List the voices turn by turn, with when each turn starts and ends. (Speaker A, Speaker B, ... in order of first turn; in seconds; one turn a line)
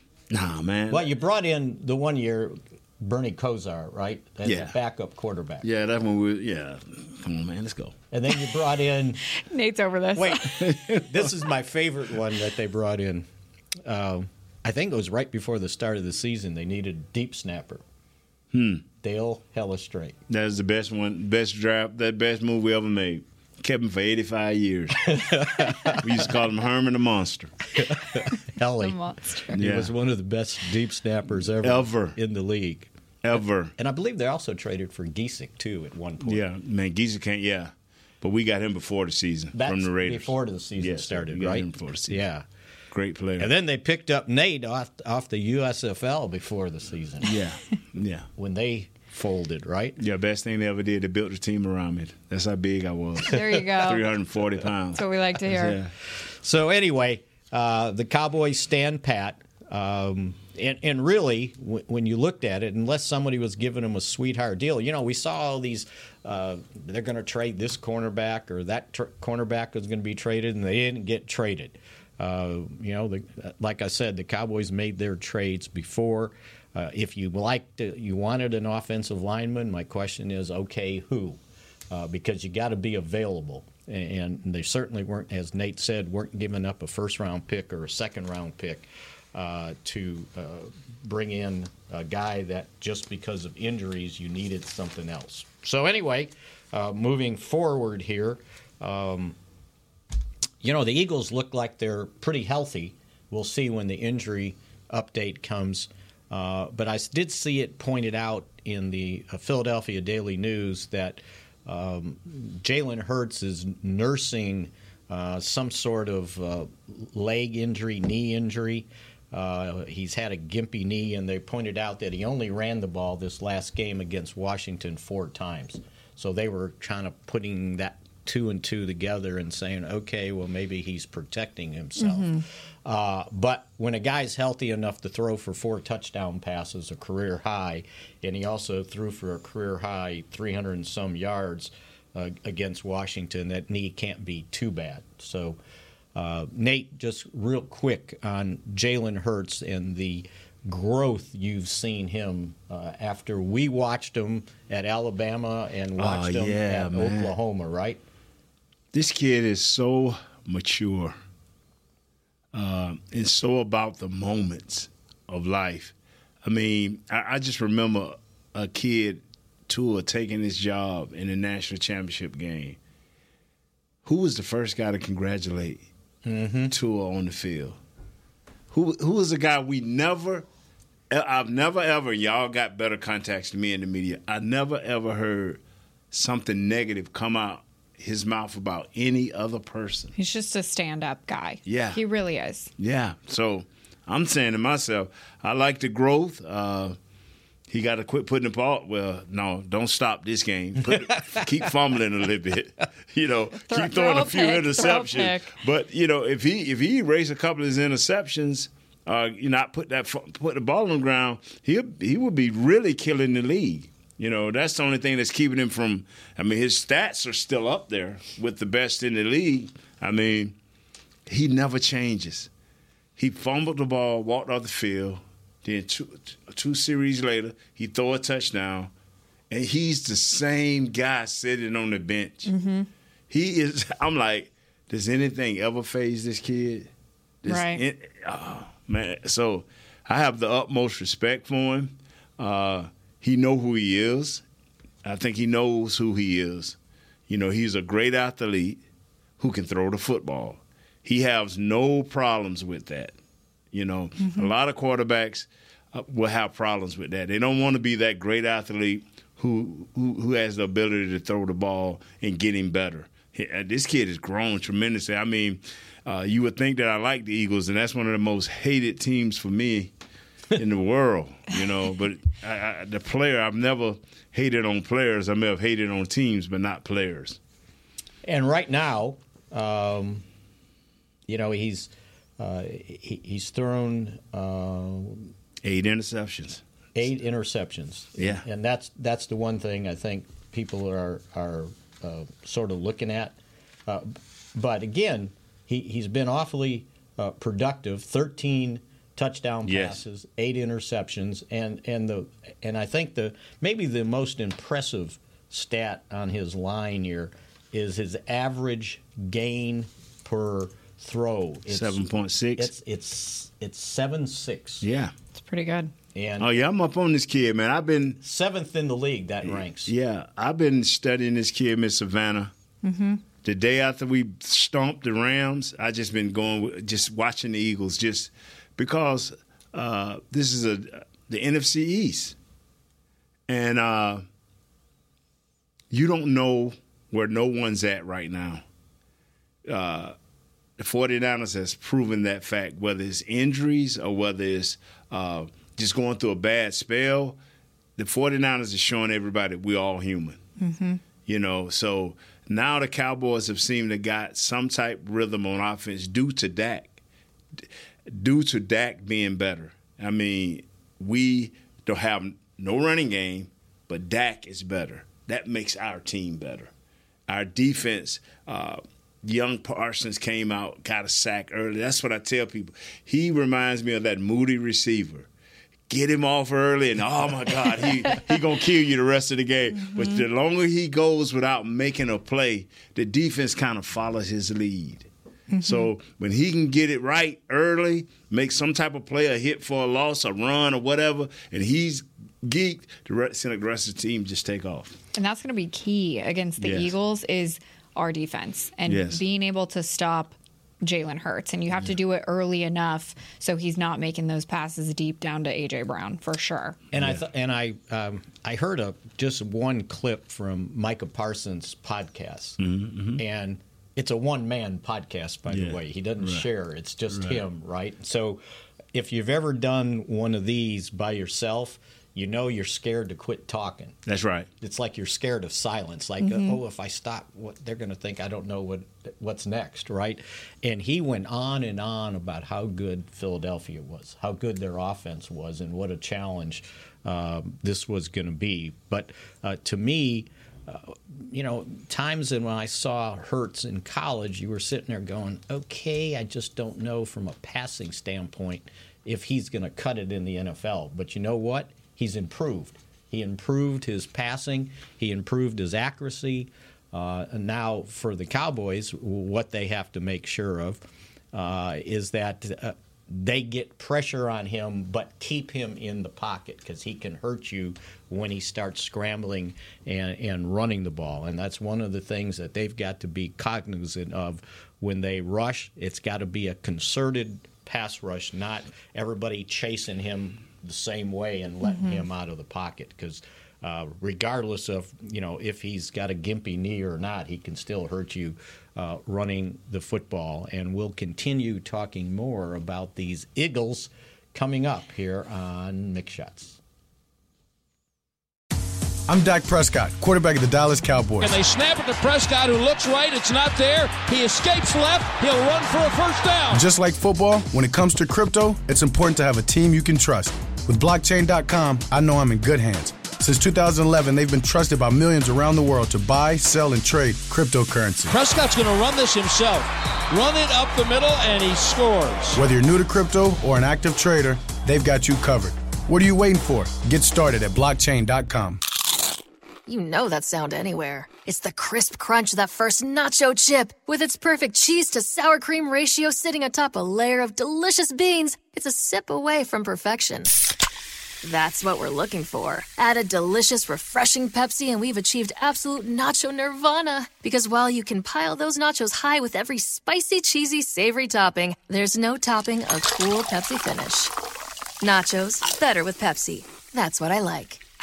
Speaker A: 0.3-1.1
Speaker B: 0.9-5.7
Speaker A: 4.5-4.8
Speaker A: 5.6-8.0
Speaker B: 8.1-9.2
Speaker C: 9.3-10.6
Speaker B: 10.1-13.3
Speaker A: 10.6-11.3
Speaker B: 13.8-17.8
Speaker A: 18.5-18.8
Speaker B: 19.0-20.1
Speaker A: 20.3-27.6
Speaker B: 25.1-26.2
Speaker B: 27.8-36.4
Speaker C: 28.8-29.6
Speaker A: 29.5-29.9
Speaker A: 31.6-32.1
Speaker A: 33.2-33.7
Speaker A: 36.2-42.2
Speaker B: 39.5-42.5
Speaker A: 42.9-43.5
Speaker B: 43.4-47.4
Speaker A: 47.2-48.3
Speaker B: 48.4-50.0
Speaker A: 50.0-55.9
Speaker C: 53.2-54.0
Speaker C: 55.0-55.8
Speaker B: 56.1-81.4
Speaker B: 81.9-99.4
Speaker B: 100.6-145.6
Speaker C: 132.0-132.4
Speaker B: 146.1-158.0
Speaker A: 156.0-157.3
Speaker A: 158.9-161.1
Speaker A: 162.5-165.9
Speaker A: 166.4-172.8
Speaker A: 174.1-175.9
Speaker B: 176.2-176.7
Speaker A: 176.7-177.8
Speaker A: 178.7-180.4
Speaker A: 181.1-185.6
Speaker A: 186.1-190.1
Speaker C: 190.2-192.7
Speaker A: 191.6-192.0
Speaker A: 192.8-197.0
Speaker A: 197.7-220.6
Speaker C: 203.7-205.5
Speaker A: 221.3-222.5
Speaker A: 223.2-228.9
Speaker A: 229.5-232.5
Speaker C: 232.5-232.9
Speaker A: 233.3-236.9
Speaker A: 237.4-244.4
Speaker C: 237.5-237.8
Speaker A: 245.0-246.8
Speaker A: 247.3-248.8
Speaker A: 249.4-253.1
Speaker A: 253.7-269.9
Speaker C: 254.2-254.5
Speaker A: 270.5-277.4
Speaker B: 278.2-280.2
Speaker B: 281.3-285.3
Speaker A: 285.6-286.6
Speaker B: 286.9-312.1
Speaker A: 288.2-288.4
Speaker A: 299.6-300.0
Speaker A: 311.7-312.7
Speaker B: 312.6-314.9
Speaker A: 314.8-315.1
Speaker C: 315.4-315.9
Speaker B: 316.1-316.6
Speaker A: 316.4-318.2
Speaker B: 318.2-319.9
Speaker A: 319.5-322.5
Speaker C: 322.8-323.2
Speaker A: 323.4-332.4
Speaker A: 333.5-334.2
Speaker A: 335.9-338.6
Speaker A: 339.7-340.1
Speaker A: 340.8-347.4
Speaker A: 348.0-350.4
Speaker C: 350.6-351.0
Speaker A: 351.2-357.0
Speaker A: 357.6-366.7
Speaker A: 367.3-375.3
Speaker A: 375.9-385.1
Speaker C: 385.5-385.9
Speaker A: 385.6-395.0
Speaker C: 395.1-406.8
Speaker A: 396.6-396.9
Speaker A: 398.9-399.2
Speaker B: 406.9-412.6
Speaker A: 412.6-413.2
Speaker B: 413.2-418.4
Speaker A: 415.5-416.5
Speaker A: 417.1-417.4
Speaker B: 418.9-424.0
Speaker A: 424.1-424.5
Speaker B: 424.6-496.6
Speaker C: 426.2-426.6
Speaker C: 481.6-482.1
Speaker D: 499.1-501.3
Speaker E: 501.2-506.6
Speaker D: 506.5-518.1
Speaker E: 518.1-522.4
Speaker D: 522.4-528.6
Speaker F: 529.7-540.3
Speaker F: 541.2-554.1
Speaker F: 554.8-557.6